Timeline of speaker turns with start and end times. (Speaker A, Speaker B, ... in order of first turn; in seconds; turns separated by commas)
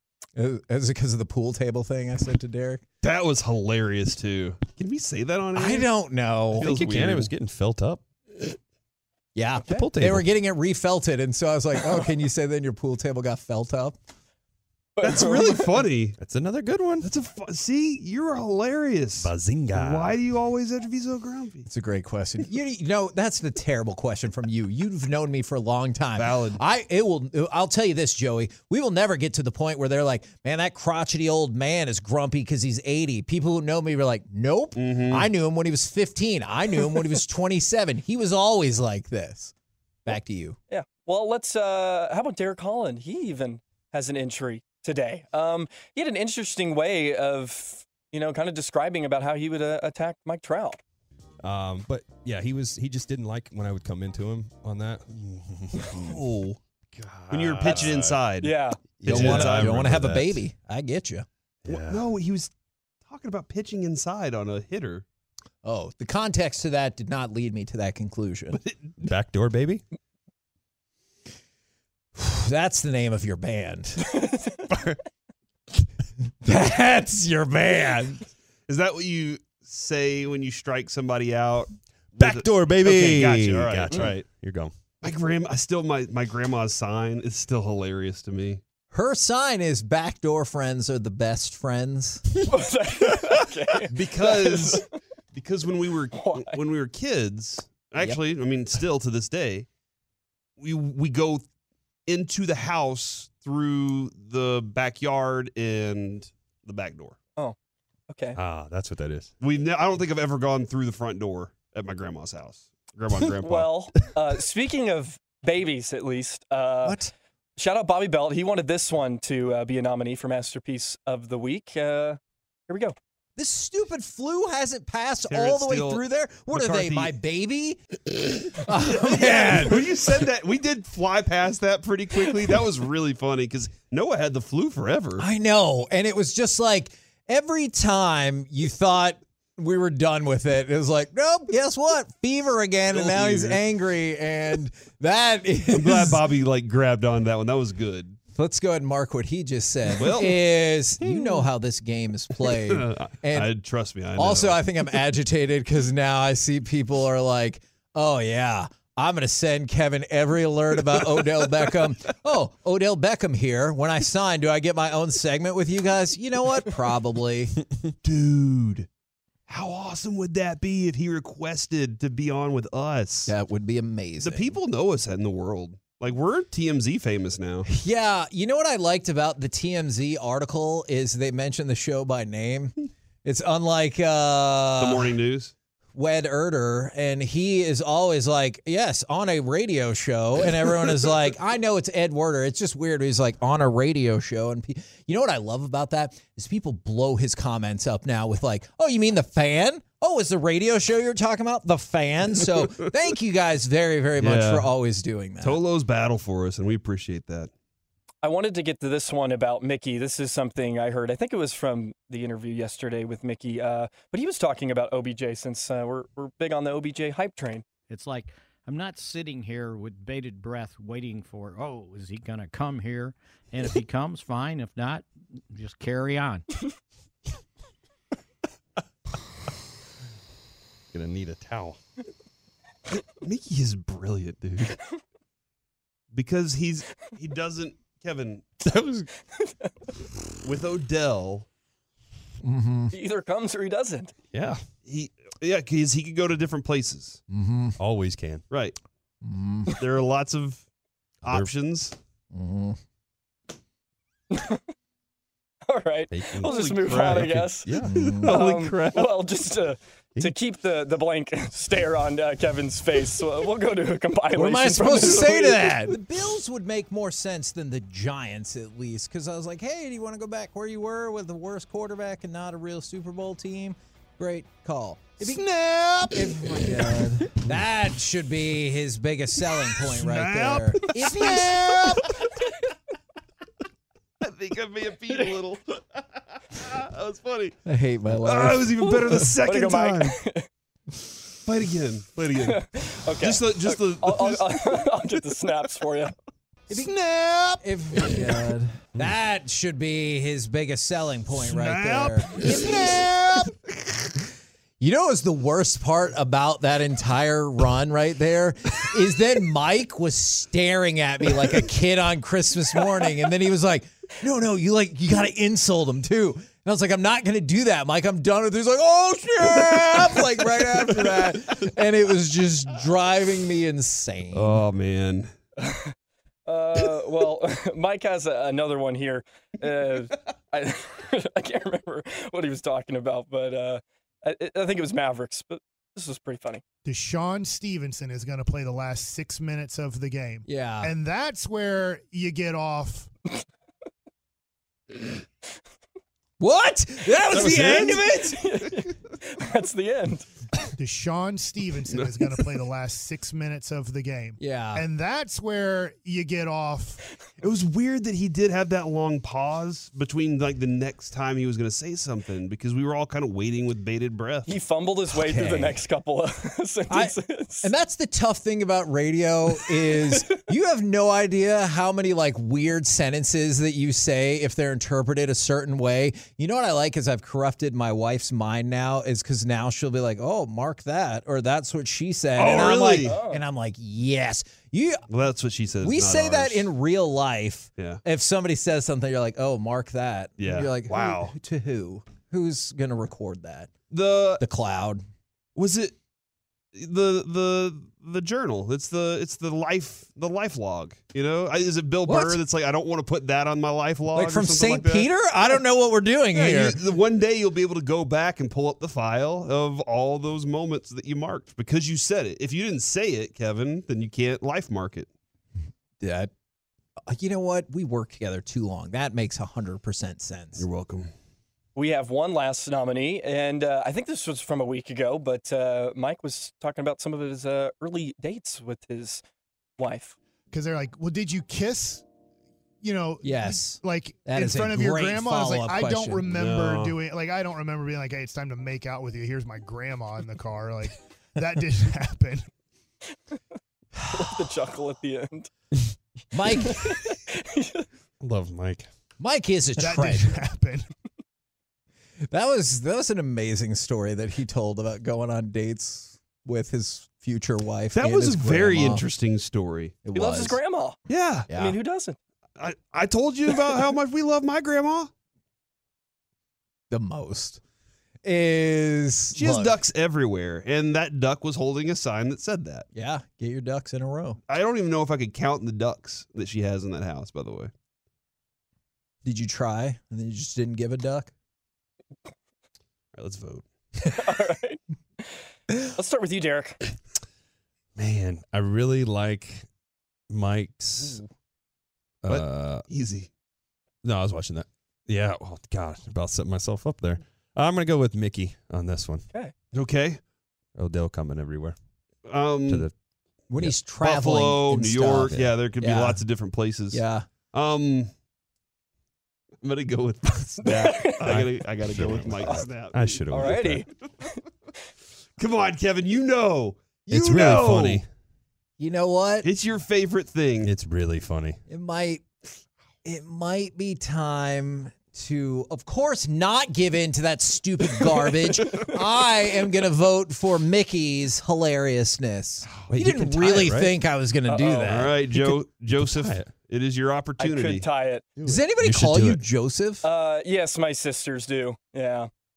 Speaker A: 0.4-2.8, Speaker B: 3.0-5.9, Speaker A: 5.5-6.7, Speaker B: 6.5-7.3, Speaker C: 6.6-8.0, Speaker A: 9.3-14.0, Speaker C: 9.7-10.3, Speaker D: 15.0-15.8, Speaker B: 15.0-16.2, Speaker C: 16.2-17.1, Speaker B: 17.0-21.7, Speaker C: 19.2-20.2, Speaker A: 21.7-39.5, Speaker B: 26.2-26.6, Speaker B: 34.8-35.3, Speaker A: 40.0-40.6, Speaker D: 40.7-50.8, Speaker C: 51.4-56.2, Speaker B: 56.0-56.6, Speaker C: 56.9-58.3, Speaker B: 57.3-60.0, Speaker D: 58.4-58.8, Speaker C: 59.0-60.4, Speaker A: 59.0-61.3, Speaker C: 61.7-62.0, Speaker B: 61.7-62.5, Speaker B: 63.0-65.0, Speaker A: 65.6-68.6, Speaker B: 68.6-68.9, Speaker C: 69.0-69.8, Speaker A: 72.2-74.1, Speaker D: 74.1-74.5, Speaker A: 76.4-78.3, Speaker B: 78.7-84.2, Speaker C: 82.2-84.7, Speaker B: 85.0-88.6, Speaker A: 88.9-92.3, Speaker D: 92.5-94.9, Speaker B: 93.9-99.7, Speaker D: 96.1-96.6, Speaker B: 100.6-101.5, Speaker B: 102.1-107.2, Speaker D: 108.1-108.4, Speaker C: 108.4-109.3, Speaker B: 109.4-113.7, Speaker D: 113.4-117.0, Speaker A: 116.8-117.1, Speaker D: 117.6-123.0, Speaker A: 123.4-127.8, Speaker B: 125.3-127.1, Speaker B: 128.5-135.3, Speaker A: 128.6-129.9, Speaker A: 135.2-146.2, Speaker B: 142.9-143.6, Speaker B: 145.7-148.2, Speaker A: 148.3-153.5, Speaker B: 149.9-150.4, Speaker B: 152.4-154.6, Speaker A: 154.2-167.6, Speaker B: 168.0-168.9, Speaker B: 169.5-173.3, Speaker A: 173.3-174.6, Speaker B: 174.2-177.7, Speaker A: 177.7-185.2, Speaker B: 184.8-185.5, Speaker A: 185.9-205.6, Speaker B: 204.2-204.7, Speaker B: 205.4-207.5, Speaker D: 208.2-217.7, Speaker E: 217.9-226.4, Speaker C: 230.9-231.8, Speaker B: 233.1-234.8, Speaker B: 236.1-238.4, Speaker C: 238.6-239.1, Speaker D: 239.4-239.7, Speaker B: 240.4-241.5, Speaker A: 242.4-242.9, Speaker D: 242.9-244.1, Speaker C: 244.3-244.6, Speaker B: 244.8-247.2, Speaker A: 247.3-247.8, Speaker C: 247.8-248.4, Speaker B: 248.5-248.8, Speaker A: 249.2-249.7, Speaker B: 249.8-250.7, Speaker B: 251.2-252.0, Speaker A: 252.3-252.8, Speaker D: 254.3-254.6, Speaker D: 255.7-265.9, Speaker C: 256.1-259.0, Speaker B: 256.4-259.1, Speaker A: 257.8-258.4, Speaker A: 264.4-275.5, Speaker A: 276.0-282.1, Speaker B: 279.8-282.1, Speaker B: 284.2-287.6, Speaker A: 287.6-289.2, Speaker B: 288.1-290.2, Speaker D: 289.4-290.5, Speaker B: 291.4-294.8, Speaker D: 292.4-296.1, Speaker A: 296.7-303.5, Speaker B: 301.3-303.6, Speaker A: 304.8-324.6, Speaker B: 324.3-325.3, Speaker D: 325.6-325.9, Speaker D: 326.5-336.6, Speaker F: 336.9-343.1, Speaker A: 340.4-340.9, Speaker A: 346.4-348.4, Speaker D: 347.6-350.3, Speaker F: 350.8-357.0, Speaker B: 351.9-352.4, Speaker A: 354.4-354.9, Speaker B: 357.4-364.5, Speaker D: 364.5-367.7, Speaker A: 365.1-365.8, Speaker A: 366.9-385.0, Speaker B: 382.4-383.2, Speaker D: 383.0-383.4, Speaker B: 385.1-386.7, Speaker A: 385.8-393.7, Speaker B: 390.4-391.4, Speaker B: 393.9-394.4, Speaker A: 394.4-395.0, Speaker B: 395.6-395.9, Speaker B: 396.7-405.1, Speaker A: 402.1-402.4, Speaker A: 404.1-406.8, Speaker B: 406.3-415.1, Speaker A: 416.0-416.3, Speaker A: 417.1-420.7, Speaker B: 420.6-421.1, Speaker D: 421.8-429.2, Speaker D: 429.8-430.2, Speaker F: 430.5-432.0, Speaker F: 432.8-442.5, Speaker A: 433.2-436.3, Speaker B: 436.3-437.0, Speaker D: 444.1-445.5, Speaker A: 446.3-446.9, Speaker D: 446.6-447.9, Speaker C: 448.2-448.9, Speaker A: 449.2-450.4, Speaker F: 449.8-450.9, Speaker A: 452.3-459.1, Speaker B: 457.9-460.0, Speaker A: 460.1-460.6, Speaker D: 460.1-461.0, Speaker B: 461.1-461.5, Speaker A: 461.5-461.8, Speaker D: 461.5-462.2, Speaker B: 462.6-465.1, Speaker A: 466.9-467.6, Speaker A: 468.2-469.8, Speaker B: 469.3-472.9, Speaker A: 472.9-474.4, Speaker B: 474.5-477.7, Speaker A: 479.2-481.3, Speaker B: 483.1-483.7, Speaker D: 484.1-485.2, Speaker D: 485.9-486.8, Speaker C: 488.0-489.7, Speaker C: 490.3-491.2, Speaker C: 492.2-492.9, Speaker B: 492.3-493.3, Speaker C: 494.0-499.3, Speaker B: 499.7-500.2, Speaker C: 500.8-501.8, Speaker B: 502.3-502.9, Speaker C: 502.7-502.9, Speaker A: 503.5-506.2, Speaker B: 504.0-508.1, Speaker A: 506.9-507.3, Speaker B: 509.6-513.5, Speaker D: 510.6-511.3, Speaker C: 511.2-513.8, Speaker D: 513.3-513.9, Speaker B: 515.4-518.0, Speaker C: 517.1-518.1, Speaker A: 518.8-519.5, Speaker B: 519.4-520.7, Speaker C: 520.6-521.6, Speaker A: 521.7-522.2, Speaker A: 523.0-535.5, Speaker D: 528.5-528.9, Speaker C: 532.9-534.0, Speaker D: 534.5-535.0, Speaker B: 534.9-537.9, Speaker C: 536.0-536.5, Speaker D: 537.4-538.3, Speaker C: 538.4-539.5, Speaker A: 538.4-540.0, Speaker D: 540.0-542.3